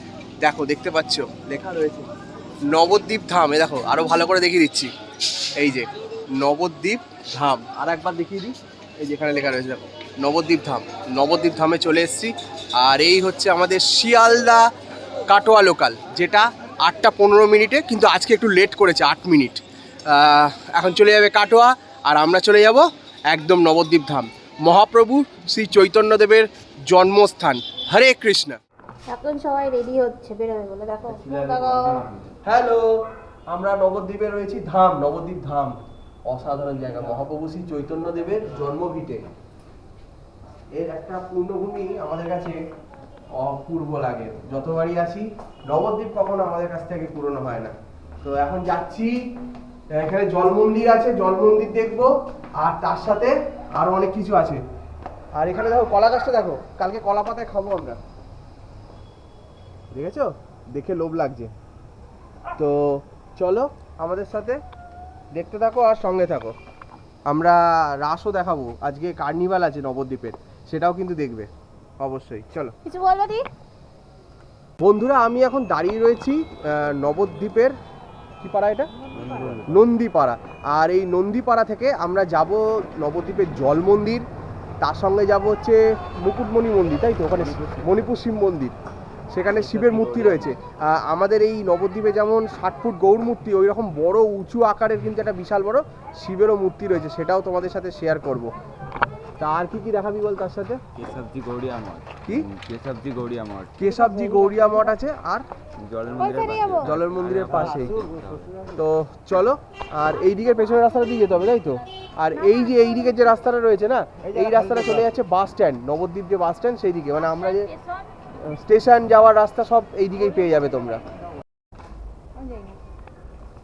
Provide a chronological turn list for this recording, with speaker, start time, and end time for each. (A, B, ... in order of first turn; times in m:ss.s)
0:00.4-0:02.1 A
0:02.7-0:04.9 A
0:05.6-0:14.7 A
0:15.3-0:28.6 A
0:29.1-0:31.8 B
0:32.4-0:32.9 A
0:33.5-0:35.8 A
0:36.3-0:39.3 A
0:40.8-0:42.6 A
0:43.4-0:49.2 A
0:49.9-0:54.6 A
0:55.4-0:58.0 A
0:59.9-1:01.5 A
1:02.6-1:04.6 A
1:05.4-1:06.5 A
1:07.3-1:11.5 A
1:12.0-1:12.8 A
1:12.9-1:13.5 B
1:14.8-1:17.8 A
1:18.4-1:18.9 A
1:19.4-1:24.2 A
1:24.8-1:28.8 A
1:29.3-1:38.5 A
1:39.4-1:40.8 A
1:41.0-1:43.7 C
1:42.2-1:42.5 A
1:43.8-1:45.5 A
1:45.9-1:46.9 C
1:46.8-1:48.1 A
1:48.2-1:48.5 C
1:48.7-1:57.7 A
1:58.4-2:01.0 A